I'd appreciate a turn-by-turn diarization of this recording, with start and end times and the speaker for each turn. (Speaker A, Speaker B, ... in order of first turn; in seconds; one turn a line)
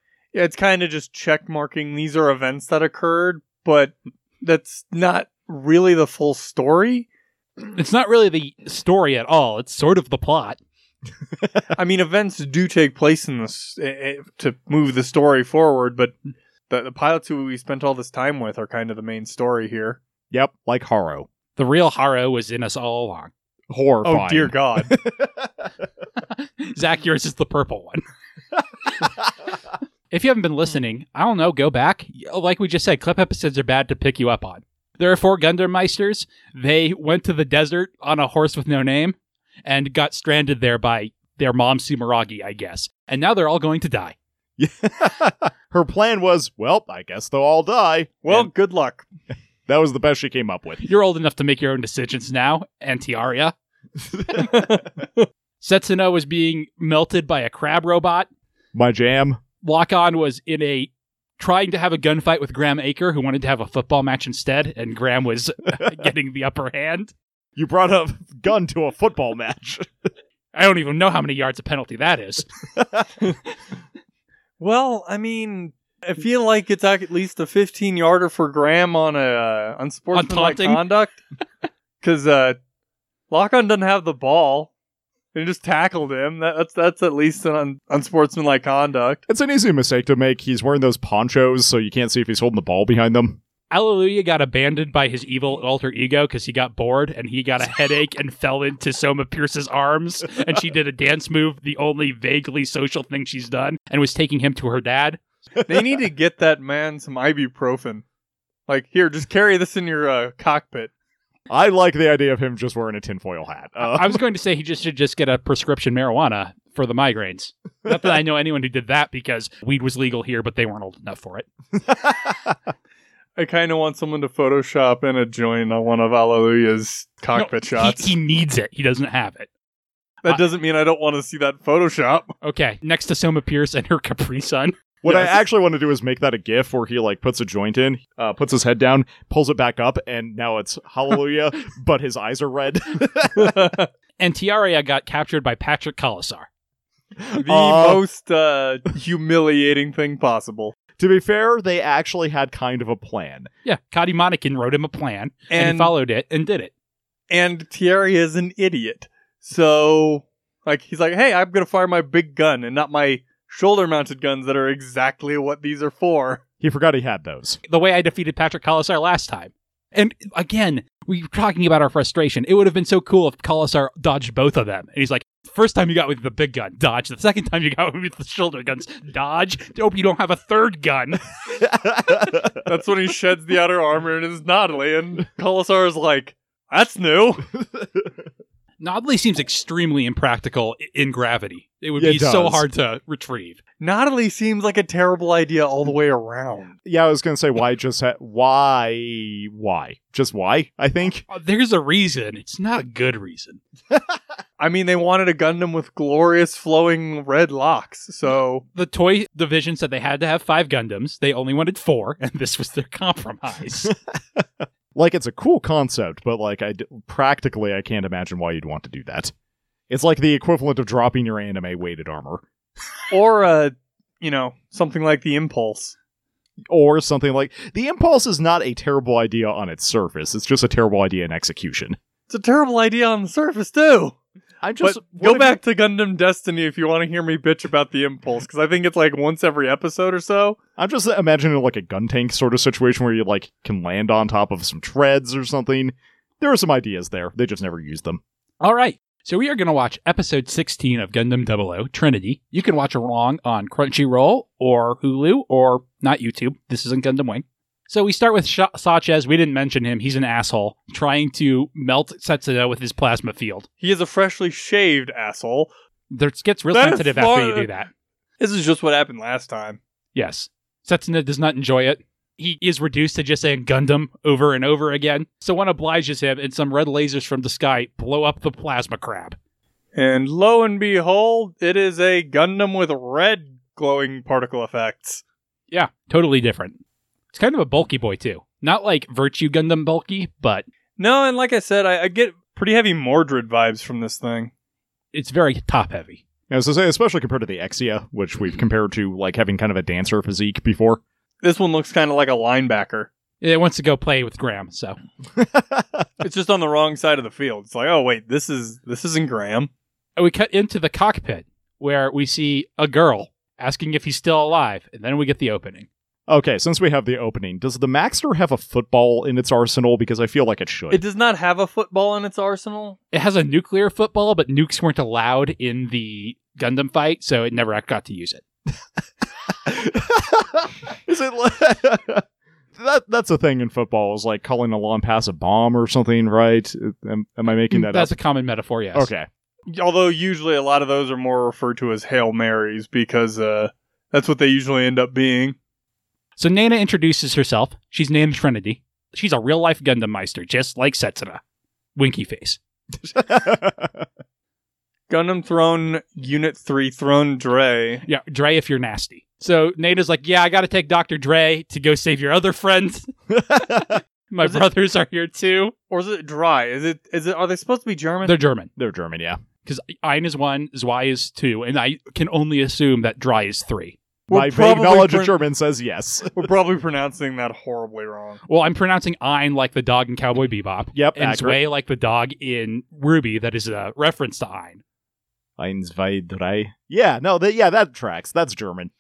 Speaker A: 0.3-7.1
Speaker B: 7.7-10.6
Speaker A: 11.8-16.2
Speaker A: 16.7-20.0
Speaker C: 20.3-21.3
Speaker B: 21.6-23.3
Speaker C: 23.7-25.7
Speaker A: 24.0-24.9
Speaker B: 26.3-28.0
Speaker B: 30.1-44.1
Speaker C: 44.6-48.5
Speaker A: 48.2-49.1
Speaker C: 49.7-50.9
Speaker B: 50.8-53.5
Speaker A: 54.4-55.0
Speaker B: 55.6-58.3
Speaker C: 58.7-59.4
Speaker B: 59.6-67.1
Speaker C: 67.6-69.9
Speaker B: 70.5-72.5
Speaker C: 72.8-73.1
Speaker A: 74.6-81.2
Speaker B: 80.1-80.8
Speaker A: 82.0-82.6
Speaker A: 83.3-84.7
Speaker A: 85.3-89.2
Speaker C: 89.3-93.4
Speaker B: 93.7-105.2
Speaker C: 105.6-105.9
Speaker A: 105.7-108.0
Speaker A: 108.7-110.9
Speaker C: 111.5-114.2
Speaker B: 113.8-121.5
Speaker C: 121.9-122.5
Speaker A: 123.4-128.1
Speaker B: 127.3-129.5
Speaker A: 130.2-132.3
Speaker B: 132.4-134.8
Speaker C: 135.0-143.7
Speaker A: 143.4-143.9
Speaker B: 144.2-146.5
Speaker C: 147.3-148.0
Speaker A: 147.4-150.8
Speaker C: 151.0-153.5
Speaker B: 153.7-156.7
Speaker A: 155.5-155.9
Speaker A: 157.3-166.4
Speaker C: 166.6-167.6
Speaker B: 167.7-181.2
Speaker C: 181.6-182.6
Speaker A: 182.6-187.5
Speaker B: 188.8-193.6
Speaker C: 192.0-192.7
Speaker A: 193.8-196.7
Speaker C: 196.8-201.2
Speaker B: 201.3-203.6
Speaker A: 204.6-208.7
Speaker B: 208.7-213.9
Speaker C: 213.9-219.3
Speaker C: 219.9-222.4
Speaker A: 223.1-225.9
Speaker C: 226.7-232.0
Speaker A: 232.3-234.2
Speaker C: 234.6-235.6
Speaker A: 234.8-240.6
Speaker C: 240.8-248.2
Speaker B: 248.6-263.7
Speaker A: 263.8-265.7
Speaker B: 266.1-267.9
Speaker A: 266.7-267.7
Speaker A: 268.4-269.8
Speaker B: 270.1-279.4
Speaker A: 279.9-285.2
Speaker B: 285.7-286.8
Speaker B: 287.3-290.7
Speaker A: 291.0-294.5
Speaker B: 295.1-296.2
Speaker C: 296.5-301.0
Speaker A: 301.4-303.1
Speaker B: 303.4-305.0
Speaker C: 305.4-306.1
Speaker A: 306.2-309.7
Speaker B: 310.2-315.9
Speaker C: 316.3-321.0
Speaker A: 320.9-323.0
Speaker B: 323.1-328.4
Speaker C: 329.7-332.2
Speaker C: 332.8-338.2
Speaker B: 337.7-339.1
Speaker C: 338.9-339.3
Speaker A: 339.7-345.6
Speaker B: 346.4-351.4
Speaker B: 352.0-352.6
Speaker C: 353.0-354.1
Speaker A: 355.1-358.1
Speaker B: 358.1-365.7
Speaker C: 363.3-364.0
Speaker A: 365.9-368.4
Speaker B: 368.2-368.7
Speaker C: 368.8-369.4
Speaker B: 369.6-374.0
Speaker A: 374.3-375.4
Speaker C: 374.3-376.5
Speaker A: 376.3-378.4
Speaker B: 378.5-384.8
Speaker C: 380.9-381.6
Speaker C: 385.6-388.9